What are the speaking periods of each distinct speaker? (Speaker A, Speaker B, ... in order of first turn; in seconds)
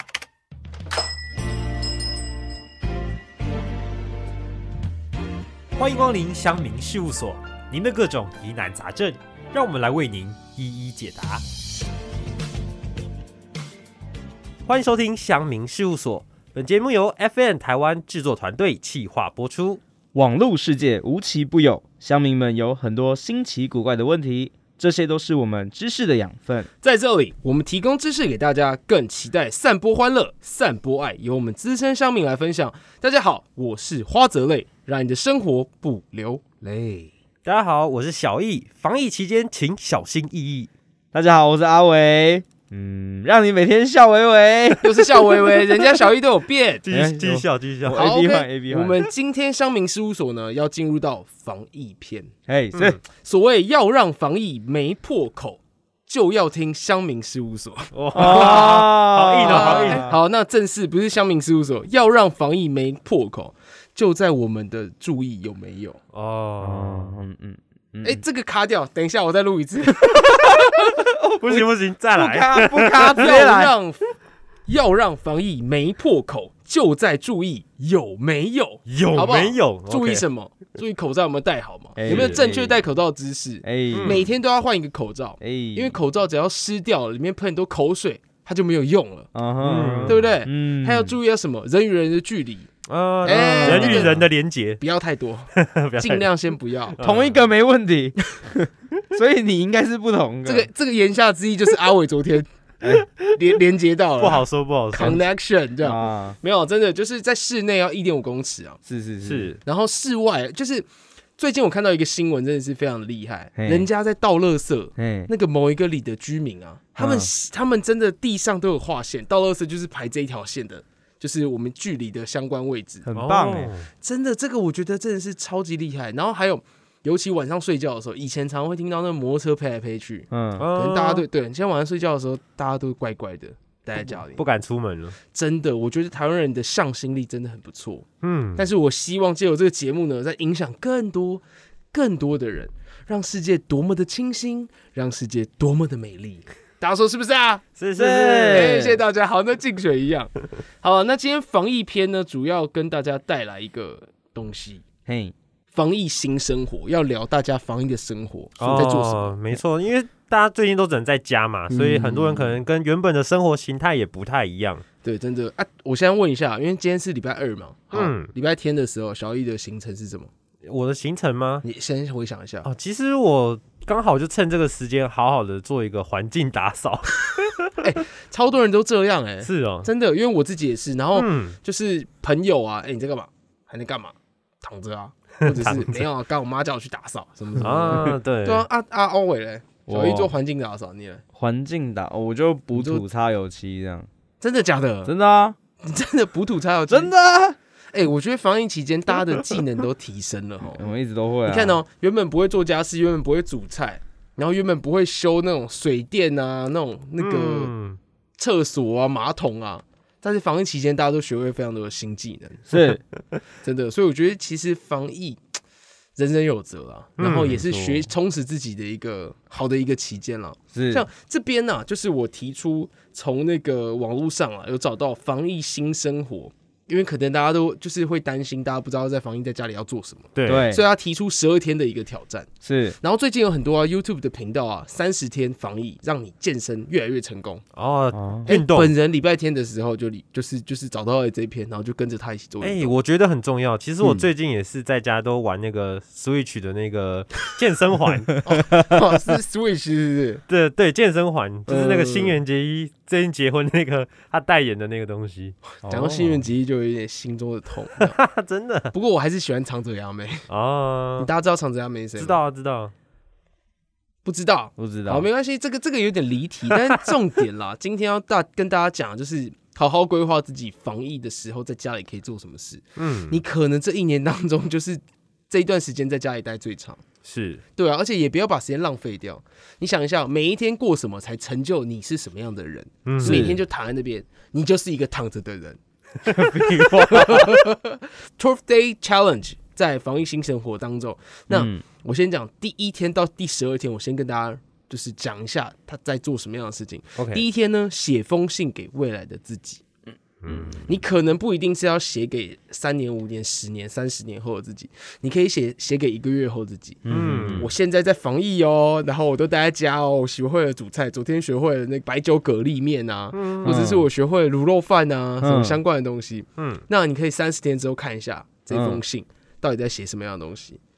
Speaker A: 5.8-11.4, 14.7-19.8, 37.4-40.7, 46.8-48.0, 57.9-60.1, 66.1-67.1, 71.4-73.3, 78.9-80.2, 82.1-82.3, 83.9-84.2, 89.6-90.3, 92.9-94.8, 95.5-96.3, 96.9-97.4, 104.2-105.2, 109.2-109.6, 123.1-123.9, 130.6-131.2, 134.1-135.2, 138.2-138.7, 147.8-148.8, 158.6-164.8, 167.9-168.3, 170.6-171.6, 172.6-177.6, 179.4-179.9, 181.1-181.6, 185.5-186.0, 187.6-188.7, 207.2-208.0, 217.2-217.9, 230.3-230.7, 237.7-238.9, 242.6-248.4, 250.5-255.6, 258.0-258.9, 260.5-261.3, 262.2-262.9, 273.0-273.4, 277.2-277.6, 283.1-283.5, 286.3-287.4, 297.2-297.4, 300.4-300.8, 307.1-307.7, 313.3-313.8, 316.6-316.8
Speaker B: 20.1-26.7, 41.1-46.1, 46.9-49.1, 52.5-53.0, 58.1-60.2, 66.6-68.2, 71.0-73.7, 82.0-82.8, 83.6-84.3, 85.4-86.0, 89.3-91.2, 93.2-94.2, 97.0-100.7, 102.8-103.1, 105.8-106.4, 108.8-109.5, 113.6-113.9, 115.0-115.3, 117.0-117.3, 123.0-123.7, 130.3-130.7, 147.9-149.0, 155.1-155.3, 187.6-188.0, 189.9-190.3, 191.3-194.1, 195.0-195.6, 196.9-197.6, 200.7-201.8, 212.7-213.0, 220.7-221.0, 230.5-230.8, 232.6-233.0, 238.1-238.5, 255.8-256.4, 264.8-265.3, 283.2-283.6, 286.3-287.5, 291.5-291.8, 307.0-307.7, 313.6-314.0, 315.4-315.8, 318.7-319.0
Speaker C: 26.8-37.1, 44.8-46.8, 47.9-52.3, 53.1-66.0, 68.0-70.8, 73.1-74.2, 74.7-89.3, 90.0-92.7, 93.2-94.2, 94.8-97.0, 100.5-102.5, 103.2-108.8, 109.6-110.9, 111.4-123.1, 124.0-134.4, 135.3-147.6, 148.5-154.8, 155.7-159.4, 161.7-162.6, 165.0-170.3, 171.6-172.7, 177.7-191.2, 192.7-193.0, 194.4-195.1, 195.8-197.1, 197.9-200.9, 201.4-207.7, 208.4-212.9, 213.6-215.4, 216.2-232.5, 233.0-237.6, 238.4-242.9, 248.4-250.4, 251.7-252.4, 255.8-258.1, 258.9-260.4, 261.2-262.4, 264.2-277.0, 277.8-285.8, 287.0-299.8, 300.8-320.8